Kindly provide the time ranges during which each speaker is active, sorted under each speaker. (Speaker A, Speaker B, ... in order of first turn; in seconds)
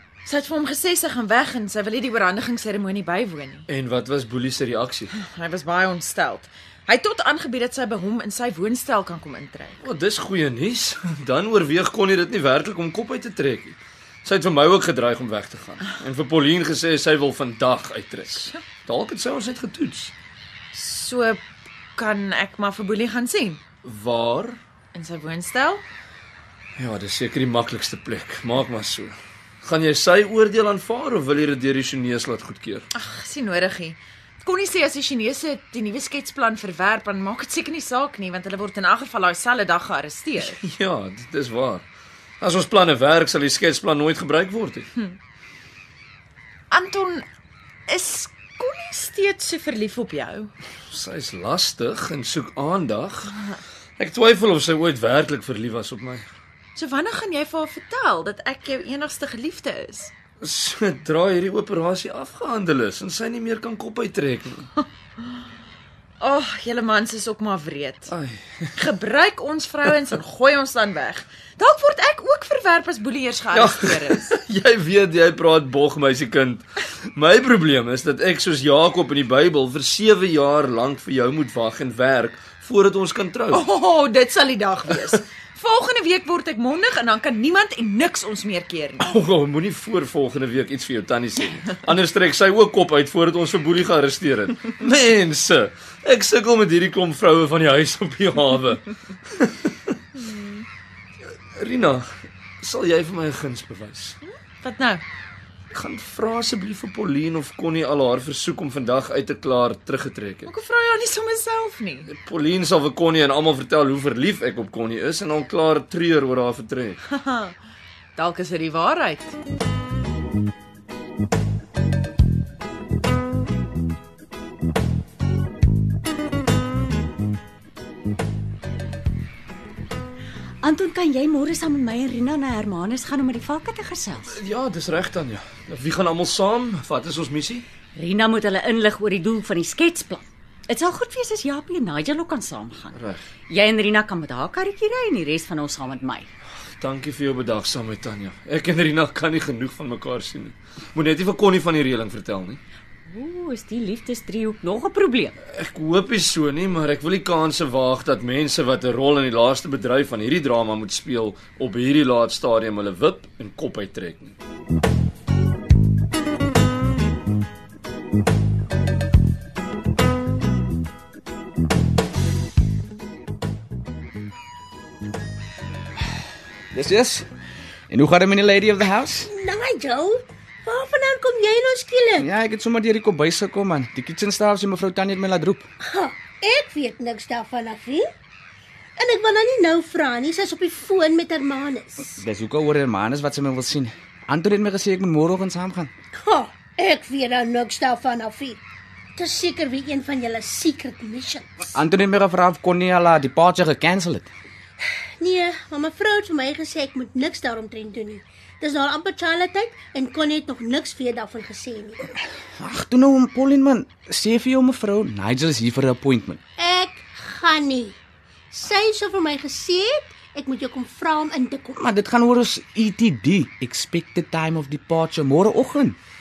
Speaker A: 0.2-3.6, 5.1-9.8, 20.7-21.4, 21.9-23.6, 24.9-25.8, 32.9-40.6, 46.7-47.2, 47.9-50.5, 56.8-60.1, 66.2-68.1, 68.8-74.3, 83.5-89.1, 100.4-100.6, 104.6-105.0, 110.5-112.1, 117.1-117.5, 118.2-119.4
Speaker B: 3.7-5.1, 9.8-20.1, 23.8-24.6, 26.8-32.8, 40.5-41.8, 42.4-44.9, 50.9-53.4, 54.0-56.3, 60.4-64.7, 68.1-68.7, 73.5-83.6, 89.0-99.9, 101.6-102.1, 102.6-104.2, 105.7-110.5, 112.1-117.0, 134.2-137.6, 142.9-143.2, 146.8-152.6, 155.5-164.4
Speaker C: 130.6-134.3, 137.9-146.3, 153.1-155.3
Speaker D: 176.7-177.3, 177.9-179.3, 182.2-185.7, 192.2-195.9, 201.7-204.3, 212.6-216.4, 221.8-226.0
Speaker E: 179.2-182.3, 185.8-188.1, 189.0-192.2, 196.1-198.6, 199.2-201.6, 205.2-212.0, 216.6-217.9, 218.5-221.8